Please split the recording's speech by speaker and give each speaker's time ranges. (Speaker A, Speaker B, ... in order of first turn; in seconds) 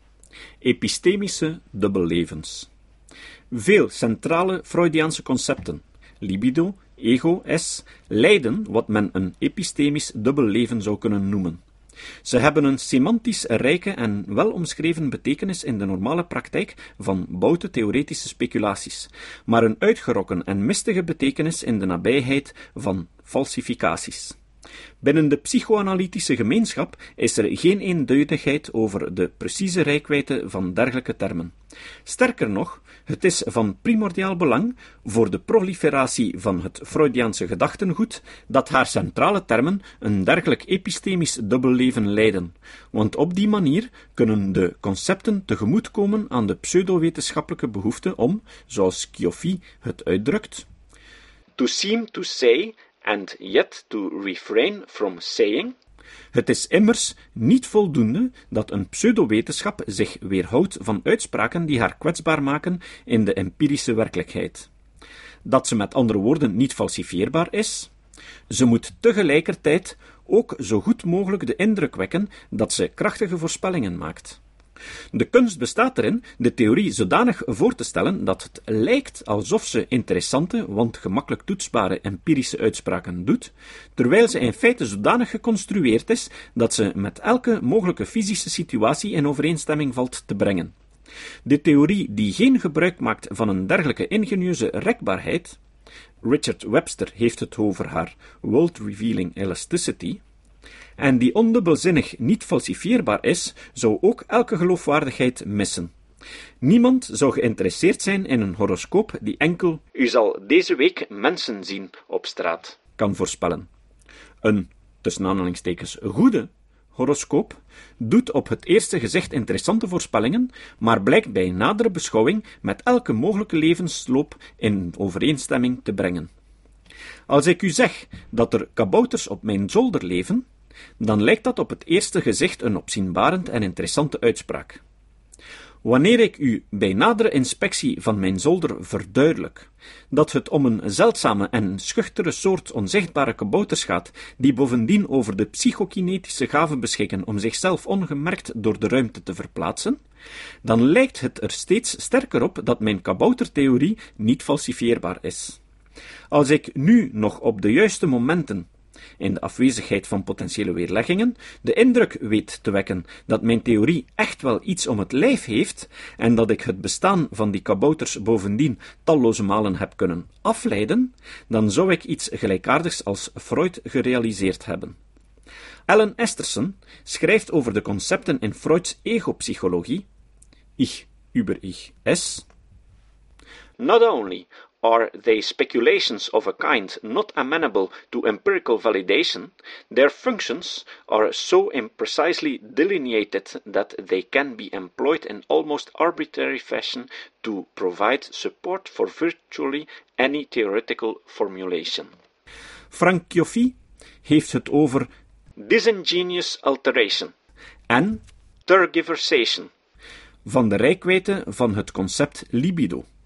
Speaker A: 0.6-2.7, 3.5-11.6, 12.2-24.4, 25.0-31.5, 32.1-50.7, 51.6-55.8, 56.3-64.7, 65.5-67.9, 68.5-74.4, 75.1-90.7, 91.5-95.6, 96.2-100.2, 101.0-105.9, 106.6-113.7, 114.4-126.3, 127.3-130.4, 131.0-134.8, 135.8-150.0, 150.6-155.6, 156.3-158.7, 159.2-175.0, 175.9-180.1, 180.8-182.5, 183.8-202.1, 202.9-207.3, 207.9-209.7, 210.4-213.1